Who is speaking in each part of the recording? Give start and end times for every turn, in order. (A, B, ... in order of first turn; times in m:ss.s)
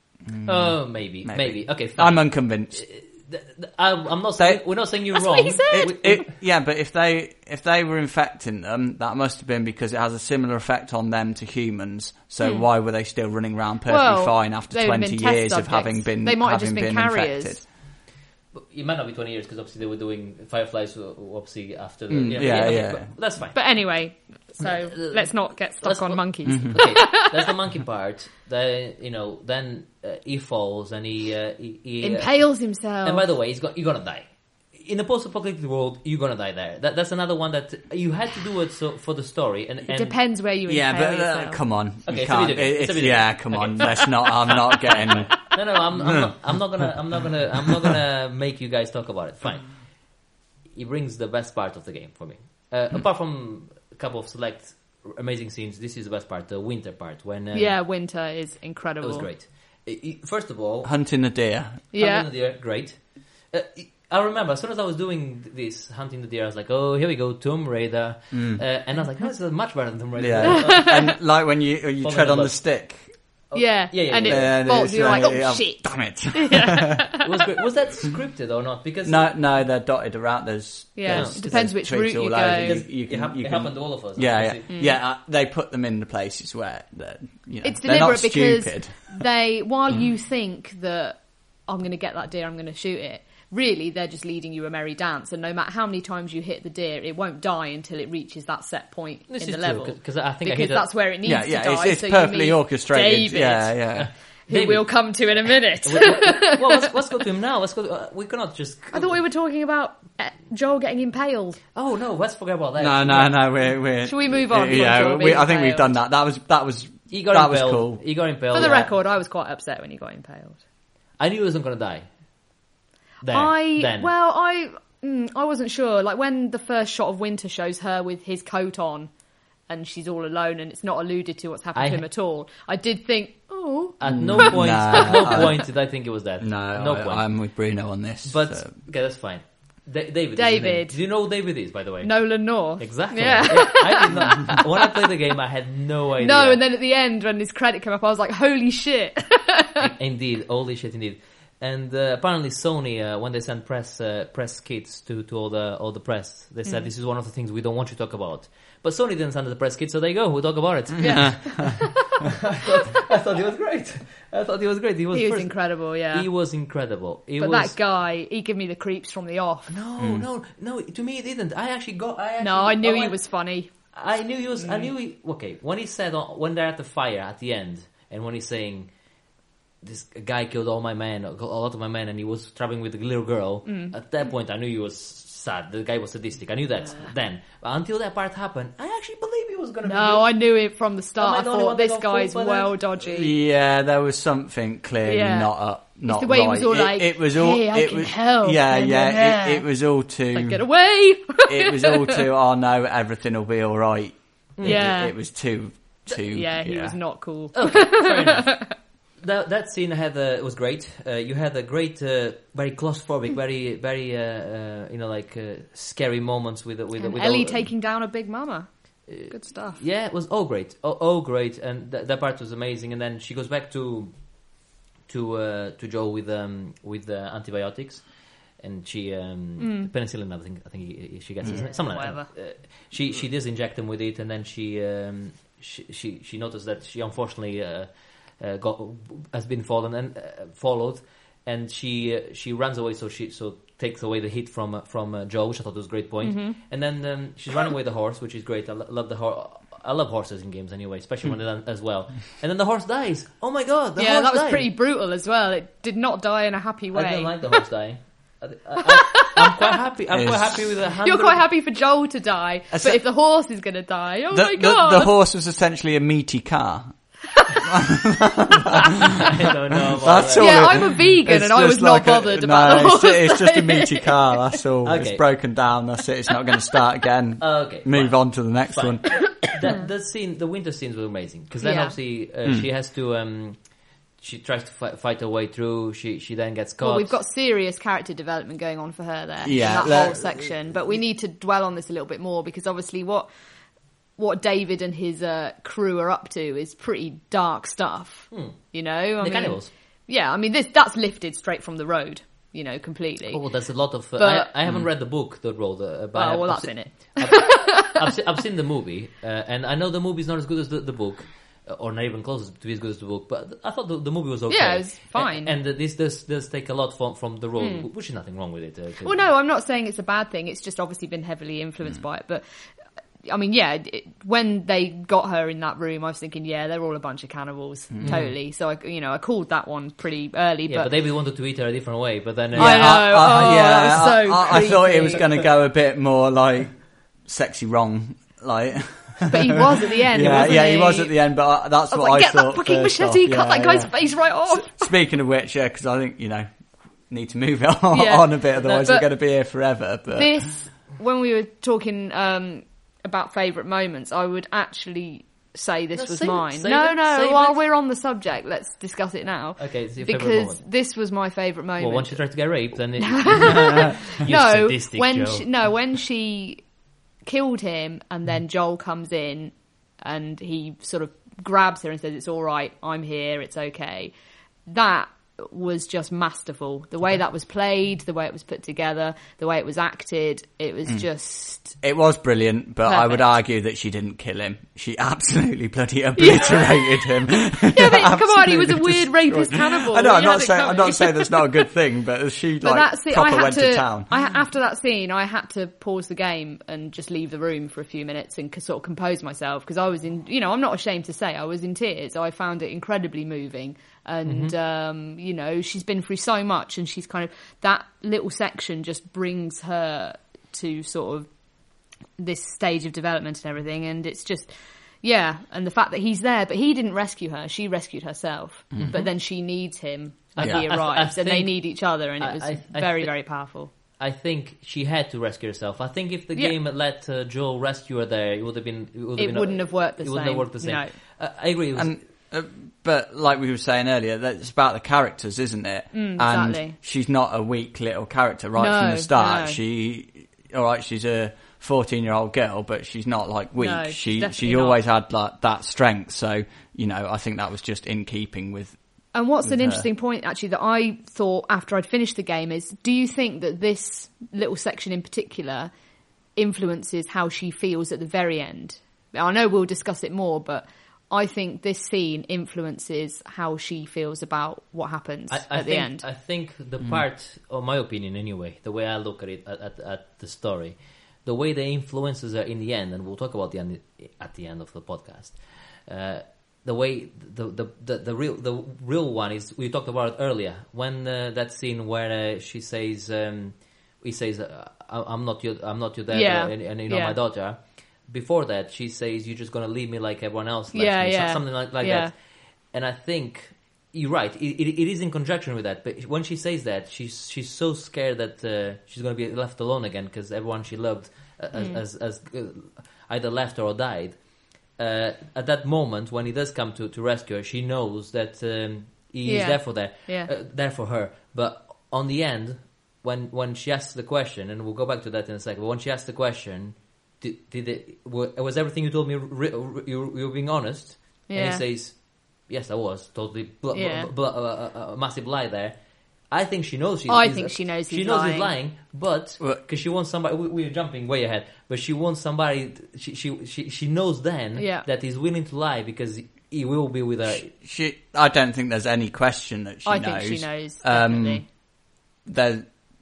0:00.3-0:02.9 A
0:00.4-0:06.3 B
0:04.4-0:04.8 A
0:05.1-0:06.2 C
0:05.7-0:17.7 A
0:12.4-0:12.7 C
0:13.9-0:17.6 C
0:18.5-0:40.2 B
0:22.1-0:23.2 A
0:23.5-0:27.4 C
0:26.5-0:26.8 A
0:32.0-0:33.2 C
0:39.9-0:41.7 C
0:40.7-0:46.2 A
0:42.0-0:57.8 B
0:44.0-0:44.3 C
0:57.5-0:59.3 C
0:59.0-1:00.9 B
1:00.8-1:01.8 A
1:01.9-1:02.3 C
1:01.9-1:11.3 B
1:08.3-1:08.6 A
1:10.2-1:13.2 A
1:10.6-1:11.1 C
1:12.0-1:15.0 B
1:13.5-1:17.3 C
1:14.2-1:17.1 A
1:17.2-1:19.5 B
1:19.0-1:29.2 A
1:21.0-1:22.8 C
1:21.1-1:24.7 B
1:24.7-1:25.0 C
1:27.6-1:46.9 C
1:39.3-1:40.9 B
1:41.2-1:44.1 A
1:43.9-1:49.2 B
1:48.9-1:51.6 C
1:51.7-1:53.4 B
1:52.8-1:58.8 A
1:53.8-1:56.0 C
1:57.1-1:59.0 B
1:58.5-2:00.6 C
2:01.2-2:02.1 B
2:03.2-2:04.1 B
2:03.3-2:09.1 C
2:09.7-2:14.4 C
2:11.8-2:12.1 B
2:14.0-2:17.5 B
2:14.1-2:15.7 A
2:15.0-2:15.5 C
2:16.4-2:18.7 A
2:18.2-2:26.6 B
2:20.4-2:21.4 C
2:22.0-2:25.1 C
2:26.2-2:29.9 C
2:29.8-2:47.8 B
2:41.0-2:42.2 C
2:41.0-2:41.6 A
2:45.1-2:46.6 C
2:47.4-2:49.8 C
2:49.7-2:58.9 B
2:50.0-2:50.3 A
2:52.4-2:54.0 C
2:54.6-2:54.9 C
2:59.8-3:10.4 B
3:03.6-3:04.0 C
3:09.8-3:13.4 C
3:11.2-3:12.8 B
3:13.0-3:20.9 A
3:15.0-3:19.7 C
3:20.3-3:22.2 C
3:21.4-3:27.0 A
3:24.6-3:24.9 B
3:24.6-3:28.7 C
3:27.5-3:37.7 B
3:37.0-3:39.8 C
3:39.1-4:14.7 B
3:49.6-3:49.9 C
3:51.4-3:52.3 C
4:06.2-4:06.6 C
4:14.0-4:17.6 C
4:16.9-4:21.4 B
4:18.9-4:19.7 C
4:20.1-4:20.8 A
4:21.0-4:25.1 C
4:22.7-4:23.0 A
4:24.3-4:27.0 A
4:27.6-4:29.3 A
4:29.1-4:30.8 B
4:30.0-4:39.2 A
4:30.4-4:34.6 C
4:34.8-4:35.2 B
4:37.4-4:47.1 B
4:41.6-4:42.0 C
4:46.8-4:53.3 C
4:49.4-4:50.5 A
4:54.2-5:04.5 C
4:58.3-4:59.7 B
5:03.3-5:19.3 B
5:06.1-5:08.1 C
5:14.5-5:15.6 C
5:17.6-5:17.9 C
5:19.0-5:22.4 C
5:23.2-5:31.0 C
5:27.9-5:28.3 A
5:28.0-5:28.4 B
5:30.7-5:33.8 B
5:32.6-5:50.5 A
5:32.6-5:35.5 C
5:39.3-5:44.9 C
5:47.9-5:49.4 C
5:50.1-6:06.7 C
5:56.0-5:57.6 B
5:59.6-6:00.6 B
6:01.8-6:05.5 B
6:07.2-6:14.1 C
6:14.7-6:21.8 C
6:21.7-6:34.1 A
6:22.8-6:23.3 C
6:26.2-6:31.7 C
6:32.6-6:51.3 C
6:44.2-6:44.5 B
6:52.2-7:03.7 C
6:58.7-6:59.0 A
6:58.8-6:59.1 B
7:00.4-7:11.9 B
7:09.2-7:11.0 C
7:11.8-7:28.8 A
7:15.9-7:16.8 C
7:18.6-7:19.6 C
7:23.6-7:24.8 C
7:29.1-7:35.7 C
7:29.4-7:29.8 A
7:36.4-7:46.1 C
7:45.3-8:57.5 B
8:06.1-8:07.2 C
8:10.7-8:12.1 C
8:21.5-8:21.8 C
8:29.2-8:30.3 C
8:41.3-8:41.6 C
8:43.7-8:44.1 C
8:47.1-8:48.5 C
8:54.6-8:54.9 C
8:57.4-9:02.8 A
8:59.8-9:01.5 C